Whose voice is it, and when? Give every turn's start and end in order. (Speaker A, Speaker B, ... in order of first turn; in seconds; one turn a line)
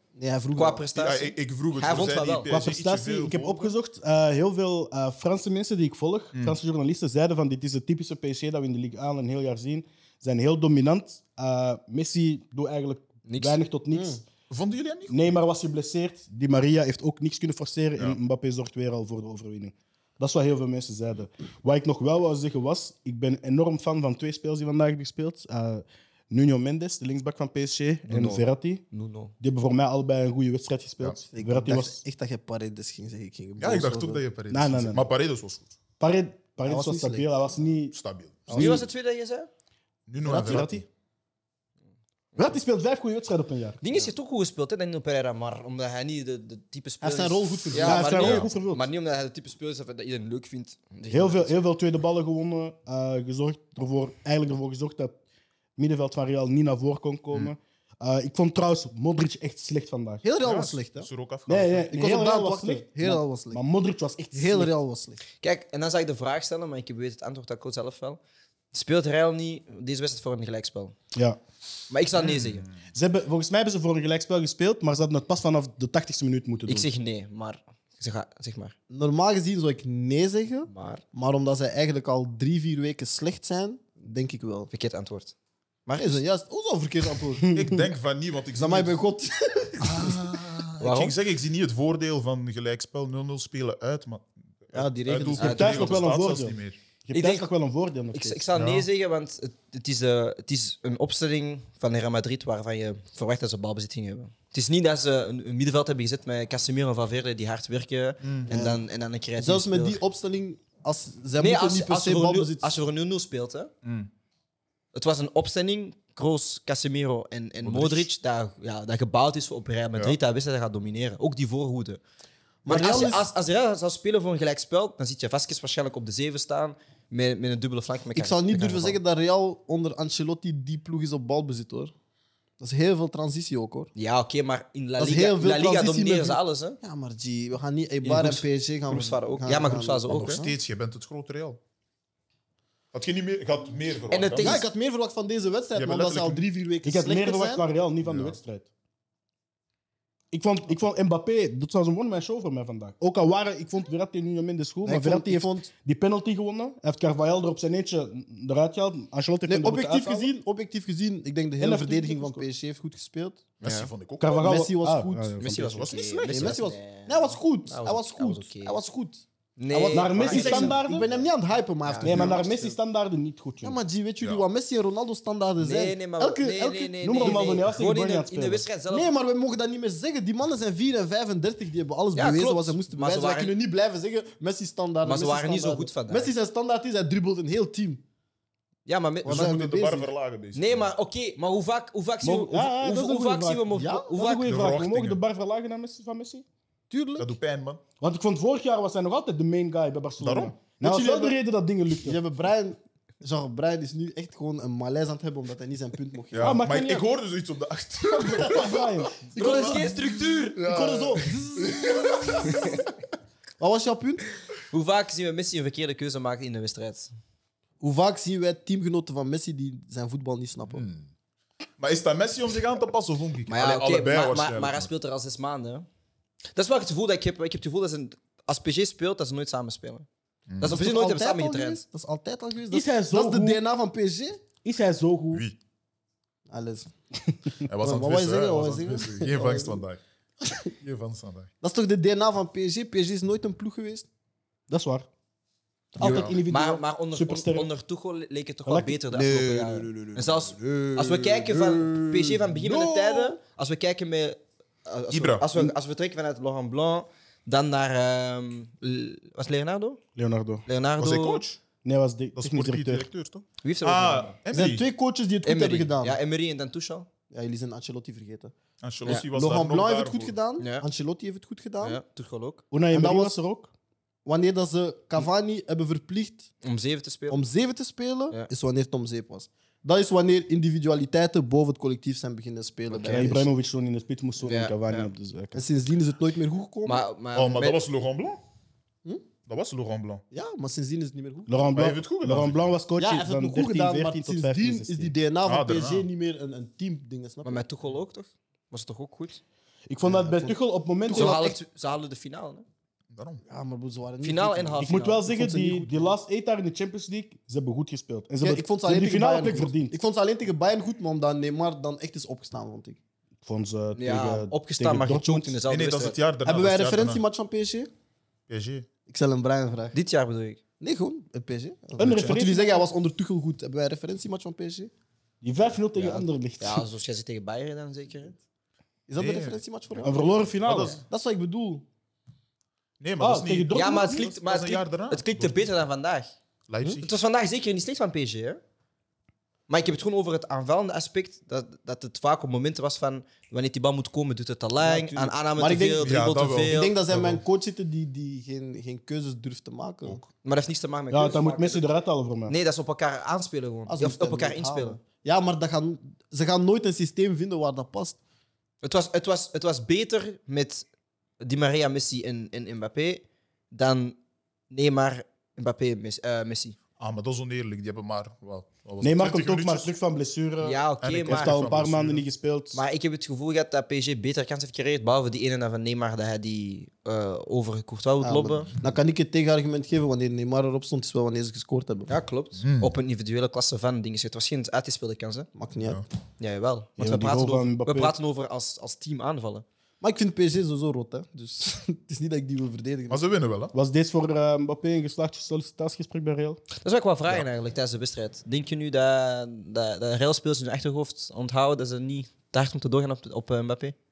Speaker A: 0.1-0.8
Speaker B: 0.6-2.5
Speaker C: 0.9-3.7
Speaker D: 2.5-14.2
Speaker B: 13.3-13.6
Speaker A: 13.9-14.2
Speaker C: 14.5-15.2
Speaker D: 15.1-28.8
Speaker B: 28.1-29.3
Speaker D: 29.4-32.0
Speaker A: 31.3-34.2
Speaker C: 33.6-35.7
Speaker D: 34.5-35.1
Speaker D: 36.0-37.9
Speaker A: 36.6-37.3
Speaker C: 37.9-38.6
Speaker A: 38.5-38.8
Speaker B: 38.5-39.5
Speaker D: 38.5-38.9
Speaker C: 40.1-40.8
Speaker A: 40.2-40.8
Speaker D: 40.3-40.8
Speaker D: 42.3-43.8
Speaker B: 43.8-51.5
Speaker A: 47.0-48.2
Speaker D: 47.8-48.8
Speaker C: 48.1-48.5
Speaker D: 51.1-55.2
Speaker D: 55.8-60.2
Speaker A: 60.2-61.1
Speaker C: 60.4-61.9
Speaker D: 61.5-64.7
Speaker A: 61.9-63.6
Speaker A: 64.3-65.2
Speaker B: 65.4-68.2
Speaker B: 68.7-70.9
Speaker B: 71.9-72.6
Speaker C: 72.2-72.7
Speaker D: 72.9-76.9
Speaker B: 76.7-78.7
Speaker A: 78.9-84.7
Speaker B: 80.7-81.0
Speaker B: 84.7-85.3
Speaker B: 85.8-86.2
Speaker A: 86.0-87.5
Speaker D: 87.4-87.9
Speaker C: 87.5-89.0
Speaker A: 88.5-90.2
Speaker C: 89.8-96.8
Speaker B: 90.8-91.1
Speaker A: 94.7-95.9
Speaker D: 95.2-98.4
Speaker B: 95.4-96.0
Speaker B: 97.1-97.5
Speaker B: 98.1-110.0
Speaker C: 98.5-98.8
Speaker C: 108.2-108.5
Speaker A: 108.5-108.8
Speaker A: 109.4-112.7
Speaker B: 111.4-113.7
Speaker C: 113.8-114.1
Speaker B: 114.9-122.0
Speaker C: 117.6-118.1
Speaker A: 122.6-123.3
Speaker B: 122.7-129.0
Speaker A: 128.1-131.9
Speaker A: 132.6-133.9
Speaker B: 133.9-136.8
Speaker A: 135.0-140.5
Speaker B: 138.0-140.4
Speaker C: 140.1-141.6
Speaker C: 142.9-144.6
Speaker B: 144.1-144.6
Speaker A: 144.4-147.6
Speaker C: 145.8-146.4
Speaker D: 146.8-148.7
Speaker C: 148.0-148.3
Speaker D: 150.3-160.3
Speaker A: 154.8-155.7
Speaker A: 159.5-163.4
Speaker D: 161.6-162.4
Speaker C: 163.6-164.5
Speaker B: 163.6-163.9
Speaker D: 164.2-165.9
Speaker A: 164.4-165.3
Speaker B: 165.4-168.8
Speaker C: 165.8-166.6
Speaker A: 166.2-172.7
Speaker B: 169.6-170.9
Speaker D: 169.9-171.1
Speaker B: 171.8-172.3
Speaker D: 172.0-173.8
Speaker C: 172.1-172.3
Speaker A: 173.6-177.6
Speaker B: 175.6-179.1
Speaker D: 177.0-178.7
Speaker A: 178.9-188.0
Speaker B: 182.1-183.5
Speaker B: 185.0-186.3
Speaker B: 188.8-189.5
Speaker A: 189.2-190.1
Speaker C: 189.2-190.9
Speaker B: 190.5-194.6
Speaker D: 192.2-196.4
Speaker A: 193.7-194.2
Speaker C: 194.4-195.2
Speaker A: 196.9-197.3
Speaker C: 197.2-197.8
Speaker D: 198.0-202.2
Speaker C: 200.2-200.6
Speaker A: 200.8-201.3
Speaker A: 202.0-206.6
Speaker C: 206.3-212.9
Speaker D: 206.4-207.0
Speaker A: 208.2-208.7
Speaker D: 208.5-209.1
Speaker A: 209.3-210.0
Speaker B: 209.3-210.6
Speaker A: 210.6-212.7
Speaker A: 213.6-214.2
Speaker B: 214.7-217.1
Speaker A: 217.8-220.8
Speaker C: 220.7-221.1
Speaker C: 221.8-224.9
Speaker B: 223.5-225.8
Speaker B: 226.5-230.1
Speaker C: 230.5-230.8
Speaker B: 230.6-231.8
Speaker A: 230.6-234.4
Speaker D: 232.7-233.6
Speaker D: 234.6-235.4
Speaker C: 235.3-235.6
Speaker A: 236.5-236.9
Speaker C: 237.7-240.0
Speaker A: 237.7-239.8
Speaker A: 240.4-240.7
Speaker C: 240.7-241.5
Speaker A: 241.6-244.1
Speaker D: 244.7-245.1
Speaker D: 245.9-247.7
Speaker B: 246.0-260.0
Speaker C: 246.0-246.4
Speaker D: 248.7-249.0
Speaker A: 249.1-252.8
Speaker D: 252.9-253.3
Speaker C: 255.1-255.5
Speaker D: 260.1-260.6
Speaker B: 260.7-261.4
Speaker C: 261.0-261.6
Speaker D: 261.8-263.1
Speaker C: 262.4-264.8
Speaker B: 263.6-264.4
Speaker A: 264.5-266.2
Speaker B: 265.4-267.1
Speaker A: 267.3-268.5
Speaker C: 268.8-270.3
Speaker A: 269.1-272.0
Speaker B: 270.6-270.9
Speaker B: 271.8-272.6
Speaker D: 272.7-273.7
Speaker A: 272.9-273.4
Speaker A: 274.2-276.5
Speaker B: 276.6-277.4
Speaker A: 277.3-283.5
Speaker D: 283.0-285.6
Speaker B: 284.4-285.1
Speaker A: 285.5-287.0
Speaker B: 286.9-287.8
Speaker C: 287.3-288.4
Speaker C: 289.5-290.2
Speaker A: 290.3-291.5
Speaker D: 291.5-295.1
Speaker C: 291.7-292.7
Speaker A: 293.0-297.6
Speaker C: 295.4-296.1
Speaker B: 297.4-299.4
Speaker D: 299.9-301.5
Speaker A: 300.0-301.6
Speaker B: 301.1-302.6
Speaker C: 303.1-303.4
Speaker A: 303.5-306.1
Speaker B: 304.2-305.2
Speaker D: 304.8-309.9
Speaker A: 308.4-313.0
Speaker D: 313.4-315.6
Speaker B: 313.9-316.2
Speaker C: 315.7-317.2
Speaker A: 316.4-317.9
Speaker C: 318.5-318.9
Speaker A: 319.1-319.9
Speaker B: 319.9-320.6
Speaker A: 320.8-324.9
Speaker D: 322.0-322.8
Speaker C: 322.1-322.4
Speaker D: 325.4-326.8
Speaker B: 325.9-328.4
Speaker A: 329.1-330.4
Speaker C: 329.2-329.6
Speaker D: 330.0-331.0
Speaker C: 330.6-331.0
Speaker A: 331.0-331.8
Speaker C: 333.0-335.6
Speaker D: 333.2-334.2
Speaker B: 333.7-336.3
Speaker C: 336.7-337.1
Speaker B: 337.0-338.6
Speaker B: 339.7-346.9
Speaker A: 344.8-350.2
Speaker C: 346.0-347.4
Speaker B: 350.4-351.8
Speaker D: 351.1-352.5
Speaker B: 352.5-355.0
Speaker A: 353.9-358.2
Speaker B: 358.8-360.8
Speaker B: 361.4-364.1
Speaker B: 364.7-366.8
Speaker C: 367.0-369.9
Speaker D: 369.0-372.8
Speaker B: 370.6-371.6
Speaker C: 371.0-372.2
Speaker B: 372.7-378.7
Speaker A: 378.2-382.1
Speaker B: 382.1-385.5
Speaker C: 382.6-382.9
Speaker A: 385.6-386.0
Speaker B: 386.4-389.6
Speaker D: 387.0-388.1
Speaker A: 390.0-393.2
Speaker C: 393.1-393.7
Speaker D: 393.7-396.6
Speaker B: 396.8-403.9